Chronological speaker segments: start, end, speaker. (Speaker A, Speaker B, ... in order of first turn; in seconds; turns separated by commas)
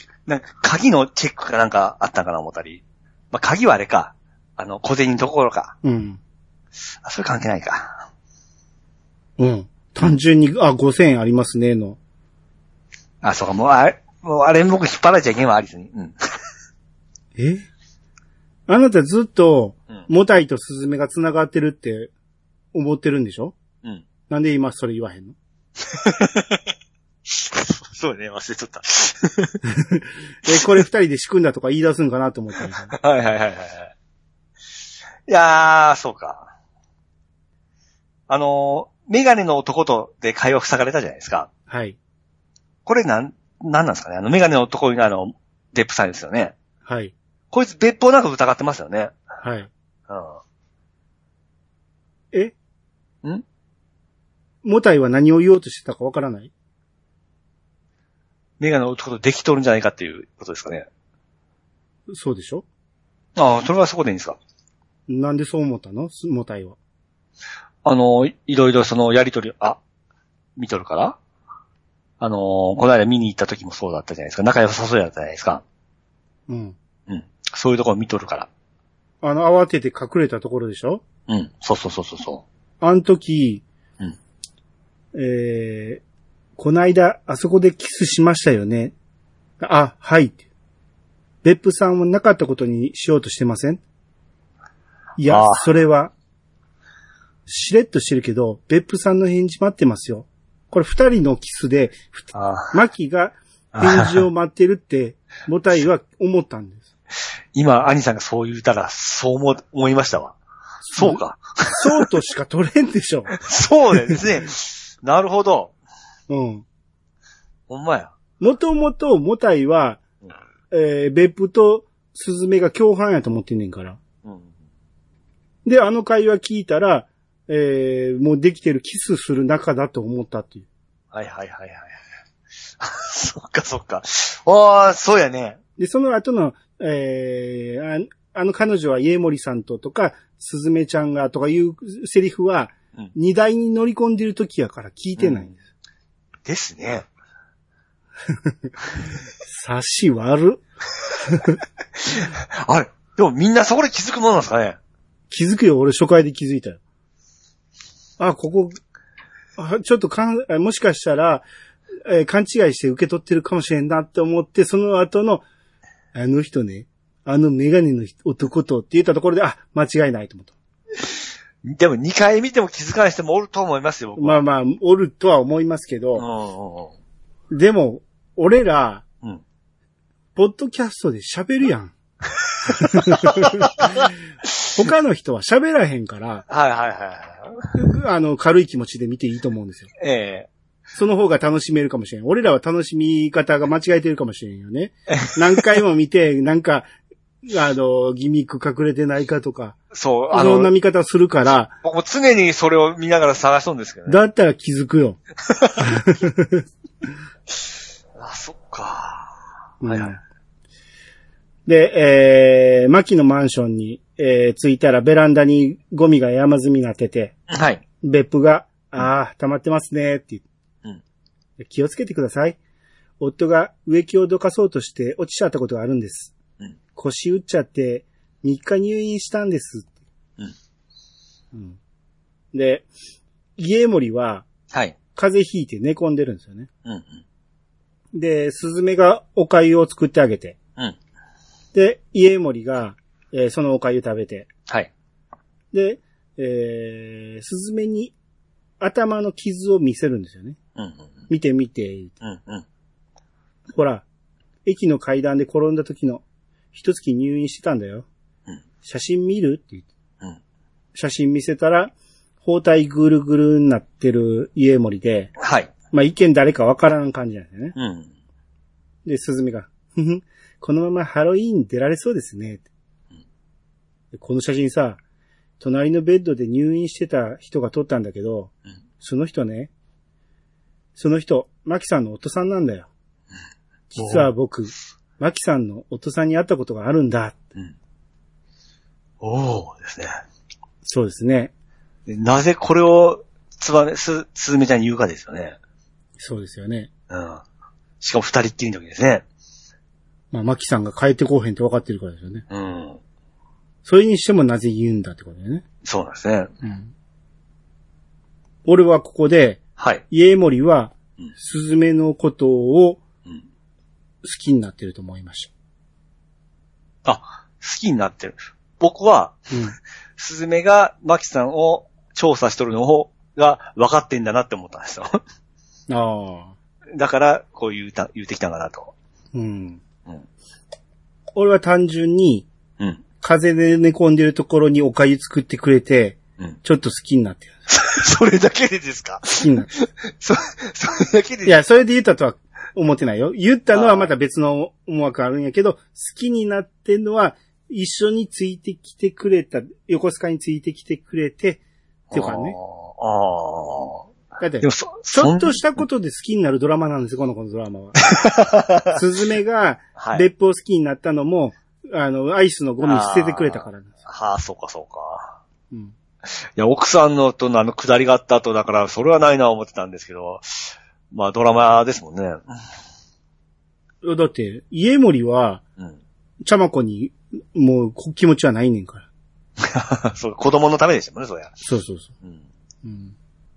Speaker A: 0.3-5.8, Speaker B: 5.8-6.2, Speaker A: 7.0-8.0, Speaker B: 9.4-12.0, Speaker A: 13.2-16.2, Speaker B: 17.4-17.7, Speaker B: 18.7-22.1, Speaker B: 22.7-23.5, Speaker B: 24.3-25.4, Speaker A: 25.8-26.7, Speaker A: 27.3-29.6, Speaker B: 29.7-32.9, Speaker A: 30.5-30.8, Speaker A: 32.7-33.9, Speaker A: 35.3-36.5, Speaker A: 38.3-41.5, Speaker B: 41.7-42.0, Speaker A: 42.9-46.5, Speaker B: 46.9-47.1, Speaker A: 47.5-49.2, Speaker B: 49.4-49.7, Speaker A: 50.1-50.4, Speaker B: 54.6-56.5, Speaker A: 58.6-60.9, Speaker B: 62.1-62.6, Speaker A: 63.4-64.4, Speaker B: 65.1-66.8, Speaker A: 67.8-69.8, Speaker A: 70.6-71.2, Speaker A: 72.2-75.6, Speaker B: 76.5-76.8, Speaker A: 77.1-78.5, Speaker B: 79.2-81.0, Speaker A: 81.3-82.5, Speaker B: 82.8-83.6, Speaker B: 85.1-86.0, Speaker B: 86.6-88.9, Speaker B: 89.6-90.4, Speaker B: 91.4-93.8, Speaker B: 95.2-96.1, Speaker A: 95.3-95.7, Speaker B: 97.5-106.9, Speaker A: 102.3-102.8, Speaker A: 103.7-104.2, Speaker A: 107.5-110.4, Speaker B: 110.9-111.2, Speaker A: 111.0-111.9, Speaker B: 111.7-113.3, Speaker A: 113.3-115.7, Speaker B: 116.3-116.7, Speaker A: 117.7-118.1, Speaker B: 118.4-120.0, Speaker B: 120.7-124.0, Speaker A: 124.2-124.5, Speaker B: 125.7-130.7, Speaker A: 131.1-132.0, Speaker A: 132.8-135.6, Speaker B: 135.8-145.6, Speaker A: 145.2-145.5, Speaker A: 146.4-147.1, Speaker B: 148.3-148.7, Speaker B: 149.4-151.6, Speaker A: 152.0-154.8, Speaker B: 155.3-156.8, Speaker B: 158.2-158.8, Speaker B: 159.6-161.4, Speaker B: 162.1-165.4, Speaker B: 166.1-170.5, Speaker A: 171.1-174.4, Speaker B: 174.2-176.2, Speaker A: 176.2-176.9, Speaker B: 177.5-179.0, Speaker B: 180.3-181.9, Speaker A: 182.4-184.7, Speaker B: 182.7-183.7, Speaker B: 184.7-186.4, Speaker A: 186.5-187.7, Speaker B: 187.7-189.9, Speaker A: 190.0-190.5, Speaker B: 190.9-196.9, Speaker A: 195.1-195.6, Speaker B: 197.4-199.8, Speaker A: 199.9-200.7, Speaker B: 200.3-201.7, Speaker A: 201.8-204.2, Speaker B: 204.1-205.2, Speaker A: 205.5-205.9, Speaker B: 205.8-206.6, Speaker A: 207.5-209.3, Speaker B: 209.8-210.2, Speaker A: 209.8-210.2, Speaker B: 211.7-217.3, Speaker A: 217.5-217.8, Speaker B: 218.0-220.4, Speaker B: 221.6-222.6, Speaker B: 223.2-226.3, Speaker B: 226.9-229.9, Speaker B: 231.5-231.8, Speaker B: 232.5-232.9, Speaker B: 233.6-234.4, Speaker A: 234.7-235.0, Speaker B: 235.2-236.7, Speaker A: 236.8-237.2, Speaker B: 238.1-240.6, Speaker B: 241.7-244.5, Speaker B: 245.7-248.1, Speaker B: 248.8-250.6, Speaker A: 250.8-251.1, Speaker B: 251.3-252.2, Speaker A: 252.2-252.7, Speaker B: 253.7-254.1, Speaker B: 254.7-258.1, Speaker B: 258.8-259.9, Speaker B: 260.9-265.3, Speaker A: 265.4-265.7, Speaker B: 265.9-267.7, Speaker A: 267.7-268.1, Speaker B: 269.1-272.7, Speaker B: 274.1-275.0, Speaker B: 275.6-279.7, Speaker B: 280.9-282.9, Speaker B: 283.9-287.4, Speaker A: 283.9-284.3, Speaker A: 289.2-290.1, Speaker B: 290.9-291.5, Speaker A: 292.1-295.6, Speaker B: 296.2-296.9, Speaker A: 297.1-297.4, Speaker A: 298.0-299.2, Speaker B: 300.3-302.4, Speaker A: 302.5-303.0, Speaker B: 303.9-305.6, Speaker A: 305.8-306.5, Speaker B: 306.6-306.9, Speaker B: 308.6-313.0, Speaker A: 309.8-310.0, Speaker B: 314.2-315.5, Speaker A: 317.1-319.5, Speaker B: 319.5-319.8, Speaker A: 320.2-325.2, Speaker B: 325.9-326.6, Speaker A: 326.9-328.9, Speaker B: 329.3-329.8, Speaker B: 331.4-332.5, Speaker B: 333.2-337.5, Speaker A: 337.7-341.6, Speaker B: 339.4-339.7, Speaker B: 341.4-351.6, Speaker A: 343.7-344.1, Speaker A: 352.1-354.1, Speaker B: 352.1-352.6, Speaker B: 354.4-358.0, Speaker A: 354.6-355.6, Speaker A: 358.0-359.0, Speaker B: 358.9-363.9, Speaker A: 360.0-360.3, Speaker A: 362.8-365.4, Speaker A: 366.2-372.4, Speaker B: 374.0-375.6, Speaker B: 376.4-379.1, Speaker A: 379.6-381.5, Speaker B: 381.6-382.1, Speaker B: 382.8-383.1